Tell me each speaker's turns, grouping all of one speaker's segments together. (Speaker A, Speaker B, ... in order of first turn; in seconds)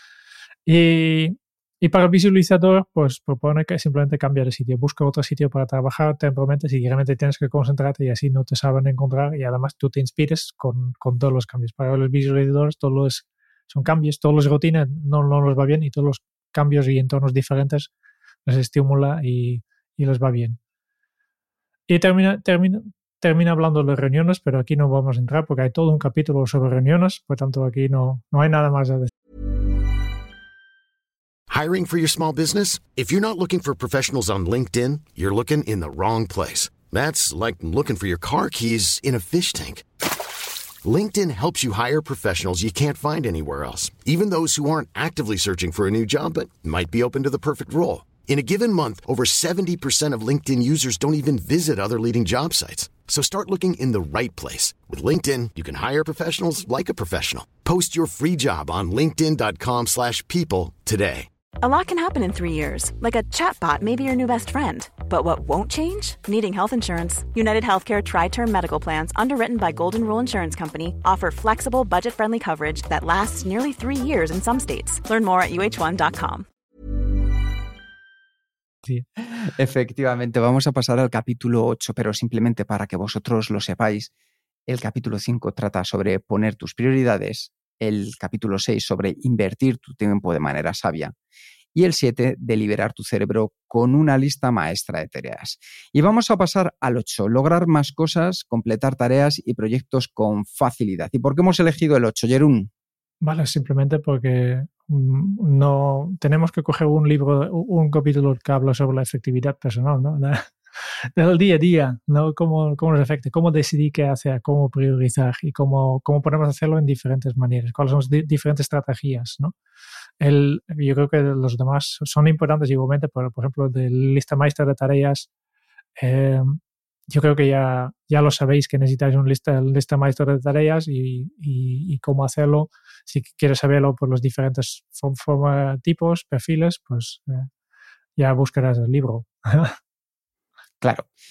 Speaker A: 0.7-17.9, 18.5-20.6, 21.9-29.1, 103.2-110.5, 111.2-119.5, 120.2-125.3, 126.0-126.6, 127.1-137.5, 138.2-139.8
Speaker B: 31.5-39.8, 40.8-61.3
Speaker C: 61.6-76.5
Speaker D: 79.4-84.1, 84.7-91.1, 91.7-102.7, 140.8-141.1